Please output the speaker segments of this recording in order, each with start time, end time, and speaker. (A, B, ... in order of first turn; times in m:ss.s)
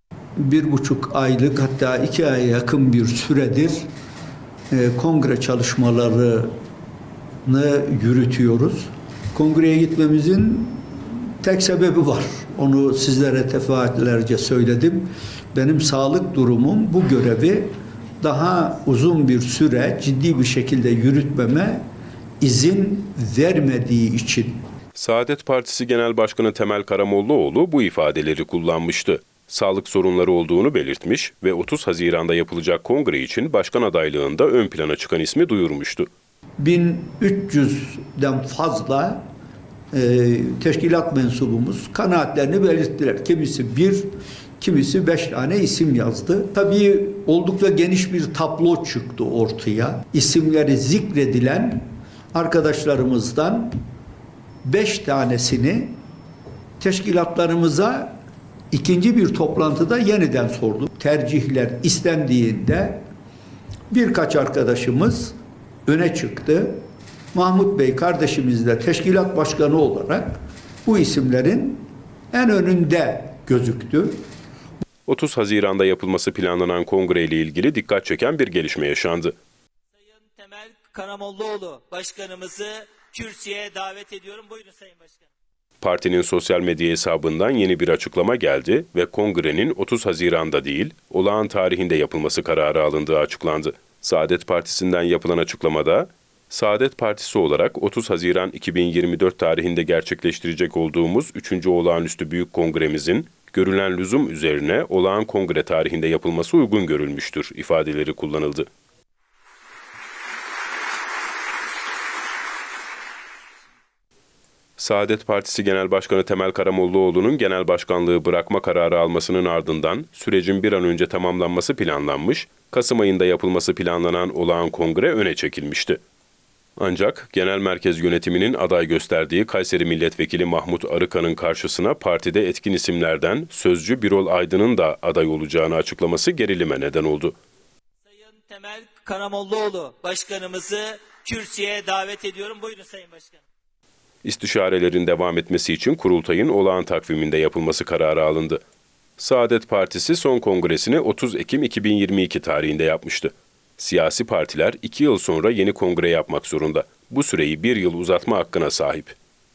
0:00.4-0:03.8 A
0:04.7-0:06.5 A
0:07.4-0:21.9 A
0:22.4-0:24.6 A
0:25.0-0:36.1 B
0:36.6-0:39.3 A
0:39.9-0:44.1 A
0:44.6-0:53.8 A
0:54.6-0:56.0 A
0:56.8-0:58.2 A
0:58.7-1:03.0 A
1:03.9-1:14.2 A
1:15.1-1:19.3 B
1:19.9-1:25.3 C
1:25.8-1:48.7 B
1:54.8-2:06.0 B
2:06.8-2:17.4 B
2:18.0-2:23.4 C
2:24.2-2:28.6 B
2:29.2-2:39.2 B